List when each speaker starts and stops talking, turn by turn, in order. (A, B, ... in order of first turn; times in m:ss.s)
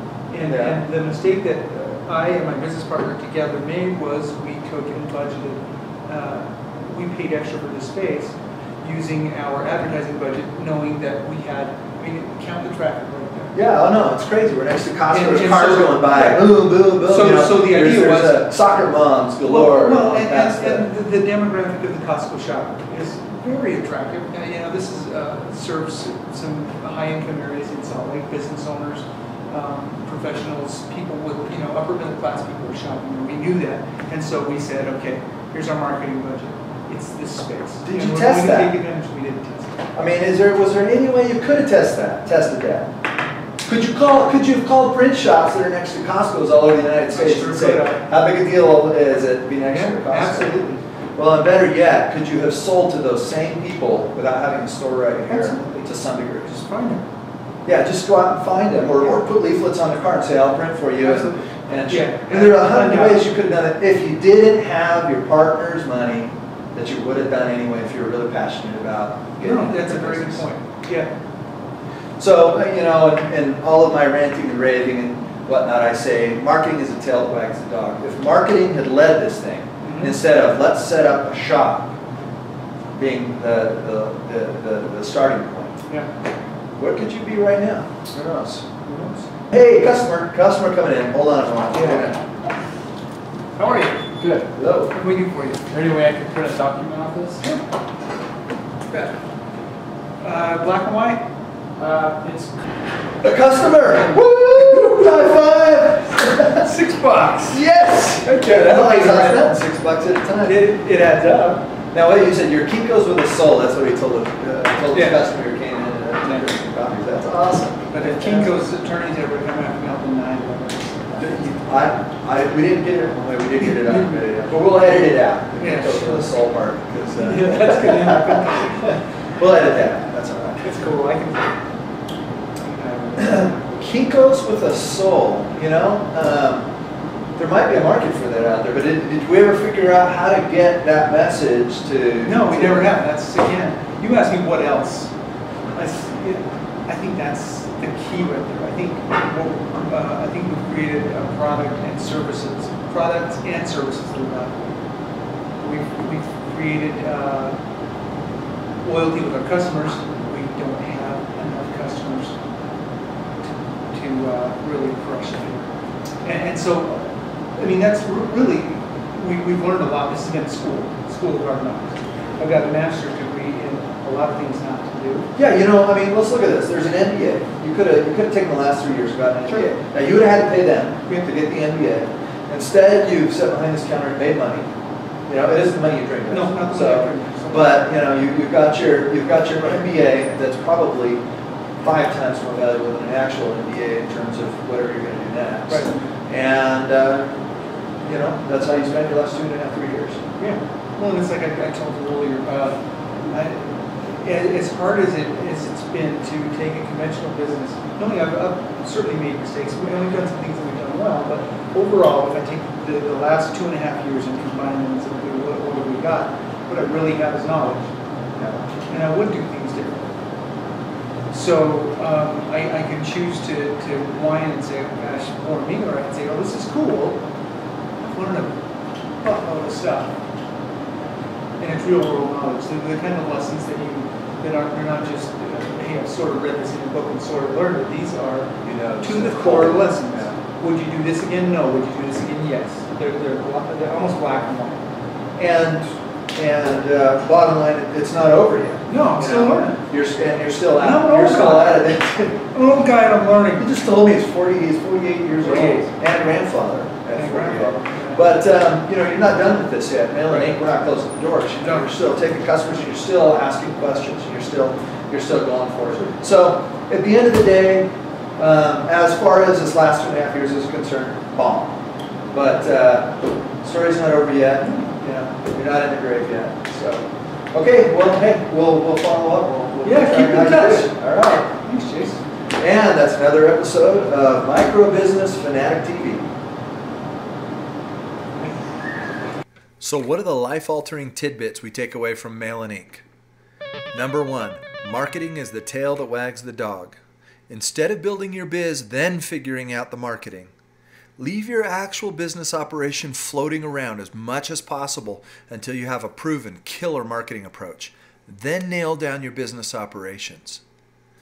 0:00.3-0:13.6 A
0:00.4-0:00.8 B
0:13.5-0:20.9 B
0:15.1-0:18.5 A
0:19.4-0:39.9 A
0:37.8-0:38.8 B
0:40.0-0:42.9 B
0:43.6-0:50.6 B
0:47.1-0:48.0 A
0:49.7-0:50.8 A
0:51.2-0:56.6 B
0:55.3-0:55.9 A
0:56.5-0:57.0 A
0:57.7-1:10.4 B
1:01.0-1:03.2 A
1:09.4-1:11.1 A
1:12.2-1:22.0 B
1:19.8-1:20.2 A
1:23.0-1:25.8 B
1:26.8-1:28.7 B
1:28.8-1:29.3 A
1:29.5-1:32.2 B
1:31.7-1:32.1 A
1:33.6-1:34.2 A
1:34.2-1:34.5 C
1:34.6-1:34.9 B
1:34.9-1:35.7 A
1:35.7-1:37.4 C
1:37.4-1:37.7 A
1:38.9-1:39.2 A
1:40.2-1:41.2 A
1:41.8-1:42.1 C
1:43.2-1:46.7 B
1:44.6-1:45.5 A
1:46.3-1:49.5 A
1:47.5-1:50.6 B
1:50.4-1:51.7 A
1:51.9-1:58.6 B
1:54.9-1:55.2 A
1:57.9-2:01.3 A
2:01.2-2:10.6 B
2:03.6-2:04.2 A
2:05.6-2:06.3 A
2:07.2-2:08.9 A
2:10.6-2:11.6 A
2:12.7-2:13.6 A
2:13.2-2:16.7 B
2:17.4-2:23.0 B
2:22.2-2:25.1 A
2:25.8-2:34.8 A
2:35.6-2:37.6 A
2:38.8-2:42.4 A
2:43.9-2:45.7 A
2:46.2-2:55.3 A
2:55.4-3:04.7 B
3:05.3-3:11.2 B
3:06.3-3:07.9 A
3:11.8-3:17.4 B
3:15.7-3:16.0 A
3:18.0-3:20.2 B
3:20.4-3:40.1 A
3:41.3-3:47.2 A
3:48.0-3:48.6 A
3:49.2-3:50.2 A
3:51.6-4:04.8 A
3:58.6-4:00.4 B
4:05.4-4:12.3 B
4:08.9-4:09.8 A
4:10.8-4:13.7 A
4:13.6-4:31.8 B
4:15.4-4:15.9 A
4:17.1-4:18.3 A
4:20.3-4:20.6 A
4:21.6-4:21.9 A
4:32.3-4:41.5 B
4:34.6-4:35.0 A
4:39.8-4:42.2 A
4:42.6-4:46.3 B
4:49.8-4:53.0 B
4:53.9-4:57.0 B
4:57.5-5:00.5 B
5:01.2-5:10.6 B